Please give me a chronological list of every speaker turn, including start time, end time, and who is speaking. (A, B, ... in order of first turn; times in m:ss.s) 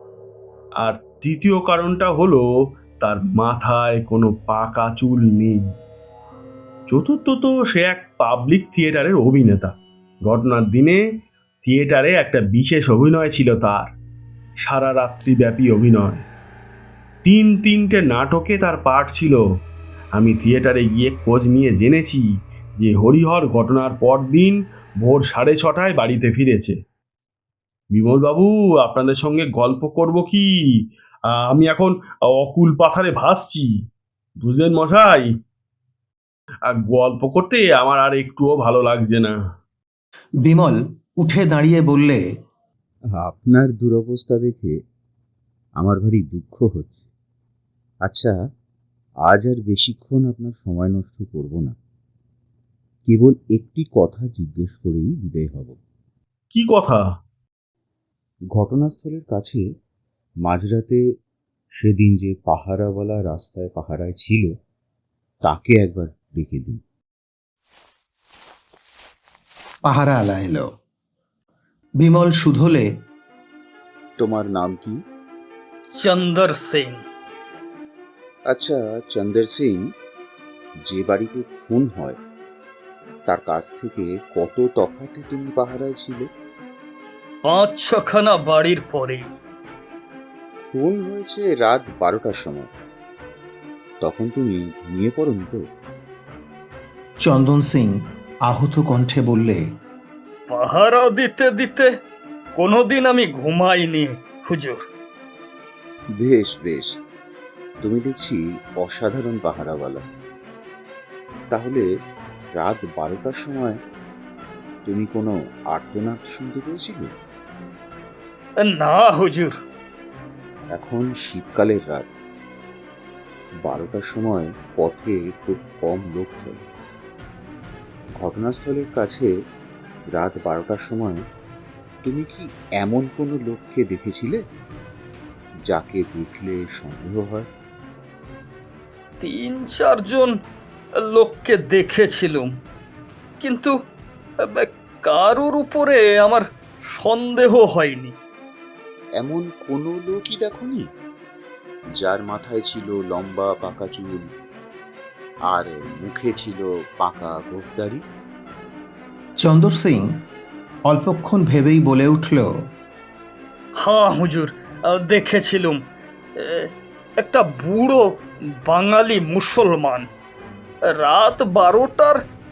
0:00.8-0:02.4 A
0:03.0-0:05.6 A
0:06.9-0:09.7 A
0:10.2-0:11.0 A
0:11.6-0:13.9 A
0:14.6-0:16.2 A
0:17.2-0:19.4 A
0:20.2-0:22.2 A
0:22.8-0:26.8 A
0:27.9-0:30.7 A
0:31.3-0:33.7 A
0:34.4-0:35.3 A
0:36.7-0:39.4 A
0:40.4-0:42.2 B
0:43.2-0:44.8 C
0:45.8-0:47.1 C
0:48.0-0:48.4 C
0:49.2-0:51.8 C
0:53.1-0:55.8 C
0:56.5-0:57.0 A
0:58.5-0:59.6 C
1:00.4-1:01.0 C
1:01.8-1:04.5 C
1:05.4-1:06.8 C
1:09.9-1:10.6 B
1:12.0-1:12.8 B
1:14.2-1:15.0 C
1:15.9-1:17.0 D
1:18.5-1:19.9 C
1:20.9-1:22.2 C
1:23.3-1:26.3 C
1:27.5-1:29.3 D
1:30.7-1:32.7 C
1:34.0-1:35.6 C
1:37.2-1:37.9 B
1:38.5-1:39.6 B
1:40.5-1:41.9 D
1:42.6-1:44.8 D
1:46.2-1:46.9 C
1:47.8-1:50.1 C
1:51.5-1:51.8 C
1:52.6-1:53.8 C
1:54.8-1:57.1 C
1:58.6-1:59.6 D
2:00.7-2:02.1 C
2:03.6-2:06.7 C
2:08.2-2:09.3 C
2:10.1-2:11.2 C
2:12.0-2:14.4 C
2:15.7-2:17.5 C
2:19.2-2:20.3 D
2:21.0-2:22.5 D
2:23.4-2:23.7 D
2:24.5-2:28.1 D
2:29.2-2:30.9 C
2:32.0-2:34.3 C
2:35.5-2:38.0 C
2:39.4-2:40.0 B
2:40.9-2:42.5 B
2:43.8-2:45.8 D
2:46.4-2:46.7 D
2:47.2-2:48.0 D
2:48.7-2:50.0 D
2:50.9-2:52.2 D